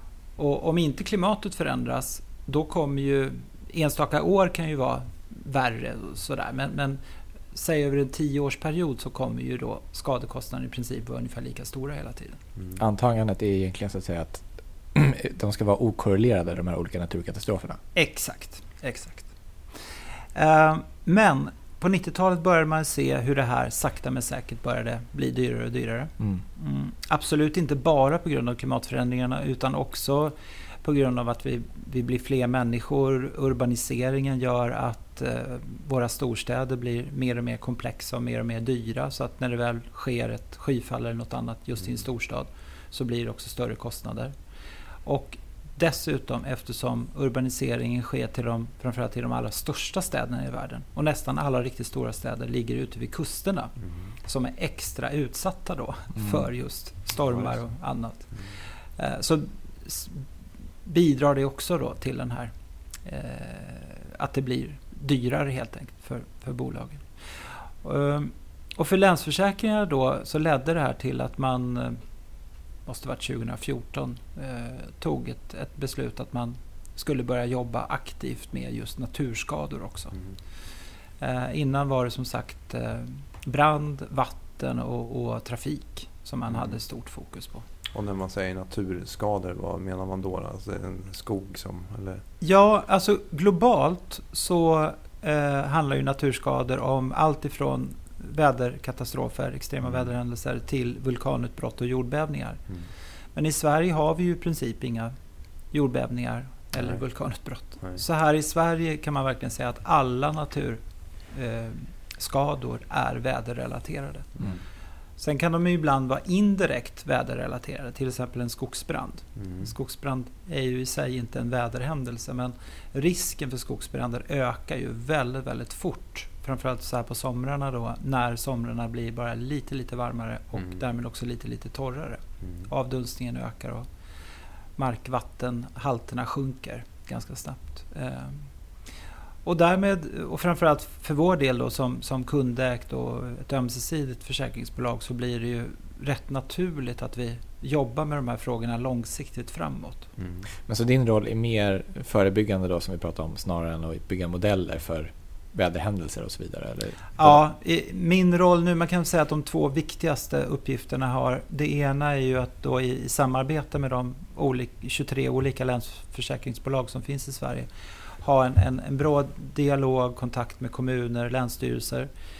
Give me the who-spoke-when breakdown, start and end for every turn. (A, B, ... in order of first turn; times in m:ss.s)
0:00.4-0:07.0 A
0:07.5-0:12.4 A
0:12.8-0:17.8 B
0:17.9-0:19.2 A
0:20.3-0:44.3 A
0:45.0-0:58.3 A
0:56.2-0:56.5 B
0:59.0-1:00.2 A
1:00.8-1:02.5 A
1:03.0-1:12.0 A
1:12.8-1:20.2 A
1:21.2-1:27.6 A
1:26.5-1:26.7 C
1:27.9-1:32.2 C
1:32.4-1:42.6 A
1:43.3-1:45.1 A
1:45.7-1:50.8 A
1:51.3-1:54.4 A
1:55.2-2:13.8 A
1:59.4-1:59.7 C
2:14.8-2:18.4 A
2:19.4-2:30.1 A
2:30.2-2:30.4 C
2:30.7-2:37.4 B
2:37.2-2:47.7 A
2:48.2-2:52.1 A